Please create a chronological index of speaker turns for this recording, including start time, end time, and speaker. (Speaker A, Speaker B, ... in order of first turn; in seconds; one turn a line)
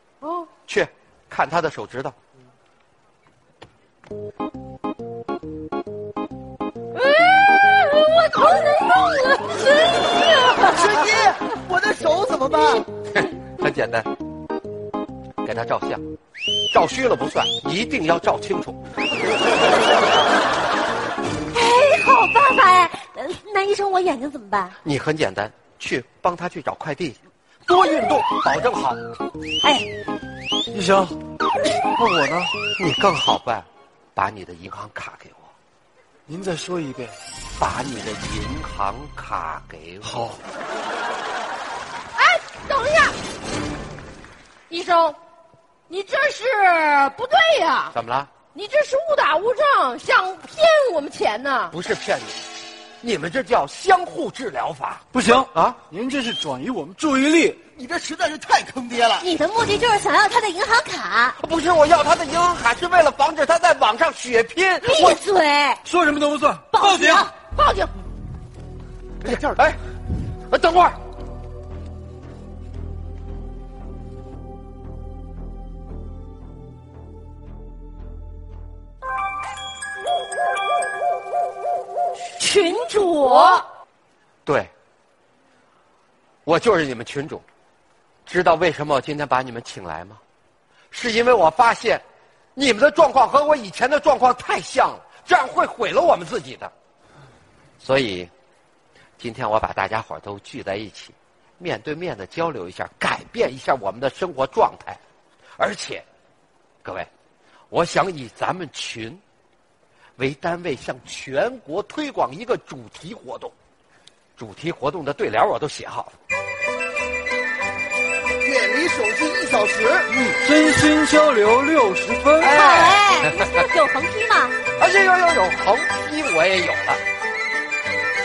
Speaker A: 0.2-0.5
Speaker B: 0.7-2.1
Speaker A: 6.9-11.2
Speaker C: 10.7-12.9
Speaker B: 13.1-14.1
Speaker B: 15.4-16.0
Speaker B: 16.7-18.8
Speaker D: 21.5-24.8
Speaker B: 24.8-29.0
Speaker D: 29.6-29.9
Speaker E: 30.7-31.2
Speaker E: 31.9-32.5
Speaker B: 32.7-35.5
Speaker E: 36.3-37.1
Speaker B: 37.5-40.2
Speaker E: 40.0-40.4
Speaker A: 42.1-43.2
Speaker A: 44.7-45.2
Speaker A: 45.9-47.9
Speaker B: 47.9-48.3
Speaker A: 48.5-51.7
Speaker B: 51.7-52.5
Speaker B: 53.0-55.8
Speaker E: 55.1-57.6
Speaker C: 57.7-59.2
Speaker D: 59.2-61.4
Speaker B: 61.4-65.2
Speaker D: 64.8-65.8
Speaker E: 65.8-67.2
Speaker D: 66.7-67.3
Speaker A: 67.5-68.0
Speaker C: 69.2-69.6
Speaker B: 69.2-69.8
Speaker B: 70.5-71.0
Speaker A: 82.4-83.6
Speaker D: 82.8-83.4
Speaker B: 84.5-84.7
Speaker B: 86.5-87.4
Speaker B: 88.2-90.2
Speaker B: 90.9-92.0
Speaker B: 92.5-96.7
Speaker B: 97.8-98.3
Speaker B: 99.2-105.0
Speaker B: 105.6-106.0
Speaker B: 106.8-107.1
Speaker B: 107.7-109.2
Speaker B: 110.2-113.5
Speaker B: 114.4-116.1
Speaker C: 118.4-120.1
Speaker E: 120.1-122.5
Speaker B: 122.4-123.4
Speaker D: 122.5-124.5
Speaker B: 124.8-127.0